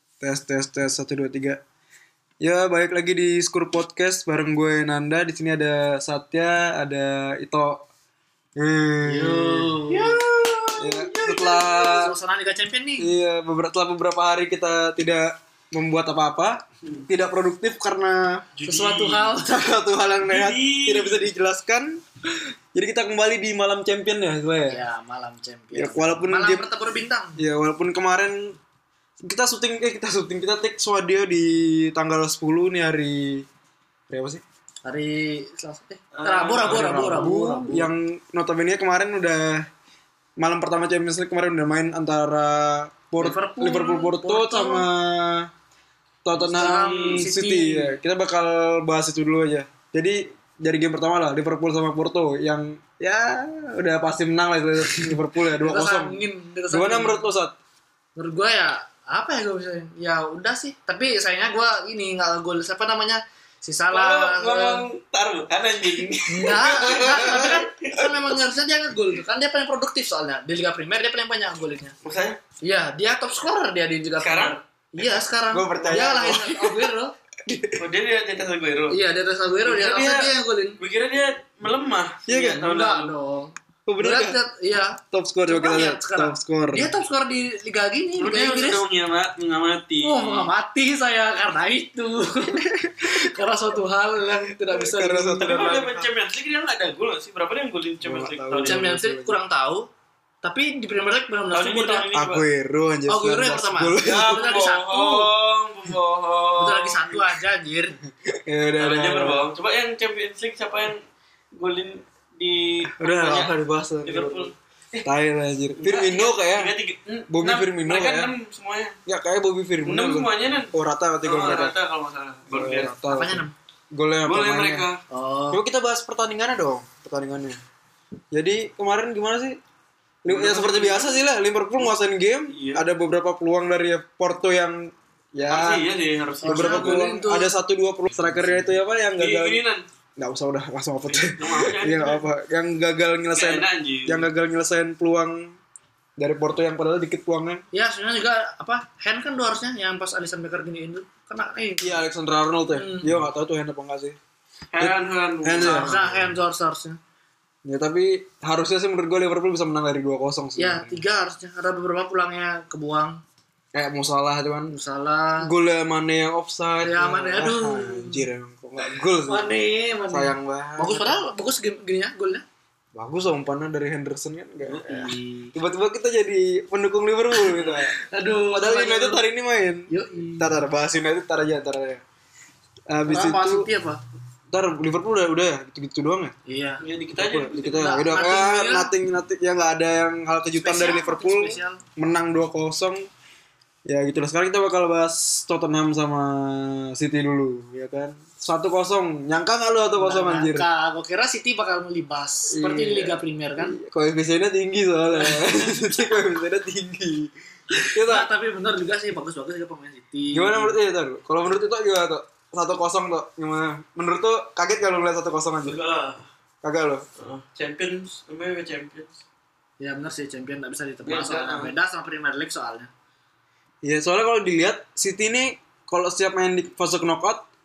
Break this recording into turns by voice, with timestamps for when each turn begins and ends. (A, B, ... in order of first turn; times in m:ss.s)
0:00.2-0:01.6 A
0:02.4-0:07.8 A
0:08.6-0:09.8 A
0:09.0-0:10.2 B
0:09.9-0:12.0 C
0:10.8-0:12.1 A
0:11.8-0:13.1 B
0:13.0-0:18.5 A
0:18.6-0:19.4 C
0:18.6-0:19.5 B
0:19.3-0:22.0 A
0:20.2-0:21.3 C
0:22.7-0:24.8 A
0:24.7-0:27.4 B
0:25.7-0:26.7 A
0:27.4-0:28.6 A
0:29.2-0:33.5 A
0:34.1-0:34.4 A
0:34.8-0:37.9 B
0:36.1-0:37.3 C
0:36.6-0:39.7 A
0:40.4-0:45.5 A
0:43.2-0:44.9 B
0:46.2-0:57.5 A
0:46.4-0:47.2 C
0:46.5-0:48.0 B
0:55.6-0:57.2 B
0:58.2-1:04.9 B
1:03.9-1:08.3 C
1:06.2-1:12.0 B
1:07.0-1:07.5 A
1:12.0-1:12.4 C
1:12.6-1:17.1 B
1:14.2-1:14.6 C
1:15.0-1:16.9 A
1:17.4-1:17.8 A
1:17.8-1:19.0 C
1:18.9-1:20.8 B
1:19.7-1:20.3 A
1:20.8-1:23.1 C
1:22.3-1:22.7 A
1:22.6-1:28.8 B
1:23.8-1:24.4 A
1:25.1-1:26.9 A
1:28.2-1:30.5 C
1:30.0-1:35.6 B
1:32.5-1:33.2 A
1:34.6-1:36.1 A
1:35.4-1:38.8 C
1:38.0-1:39.4 A
1:38.6-1:39.9 B
1:40.4-1:42.1 B
1:41.5-1:42.4 C
1:42.1-1:44.4 A
1:43.1-1:45.3 B
1:44.0-1:47.2 C
1:46.6-1:48.0 B
1:48.2-1:49.4 A
1:48.8-1:51.0 C
1:51.5-1:53.5 C
1:52.9-1:54.5 A
1:54.0-1:55.0 C
1:55.0-1:56.7 A
1:55.8-1:59.0 C
1:57.3-1:58.3 A
1:59.0-2:01.8 A
1:59.8-2:00.7 C
2:01.2-2:02.9 C
2:02.5-2:04.9 A
2:03.0-2:03.5 B
2:04.2-2:05.0 C
2:05.1-2:05.6 B
2:05.5-2:07.6 A
2:08.3-2:09.6 A
2:10.2-2:15.8 A
2:10.3-2:11.2 C
2:12.5-2:12.8 C
2:15.5-2:17.0 C
2:16.4-2:17.5 B
2:16.4-2:19.6 A
2:18.1-2:18.7 B
2:19.2-2:19.8 C
2:20.2-2:25.6 A
2:21.0-2:22.2 C
2:23.3-2:24.3 C
2:26.2-2:27.6 A
2:27.7-2:32.0 B
2:31.8-2:34.2 A
2:32.7-2:33.2 B
2:34.7-2:36.2 C
2:34.8-2:36.0 A
2:35.6-2:37.0 B
2:37.6-2:41.0 A
2:40.6-2:43.2 B
2:43.7-2:44.8 A
2:44.7-2:45.5 B
2:45.4-2:49.6 A
2:46.8-2:52.4 B
2:50.1-2:51.3 A
2:52.9-2:57.9 A
2:54.6-2:55.5 B
2:57.3-2:59.2 B
2:58.5-3:02.0 A
2:59.9-3:00.6 B
3:02.9-3:03.6 A
3:03.0-3:04.0 B
3:04.5-3:06.3 A
3:06.4-3:06.8 B
3:06.8-3:07.9 C
3:07.1-3:13.0 A
3:07.7-3:08.9 B
3:10.6-3:11.8 B
3:13.8-3:20.6 A
3:20.0-3:23.8 B
3:22.5-3:28.3 A
3:25.2-3:26.0 B
3:27.7-3:30.8 B
3:30.3-3:35.8 A
3:35.6-3:36.2 C
3:36.6-3:37.0 A
3:37.2-3:39.2 C
3:39.8-3:42.9 B
3:41.0-3:41.7 C
3:43.8-3:47.5 A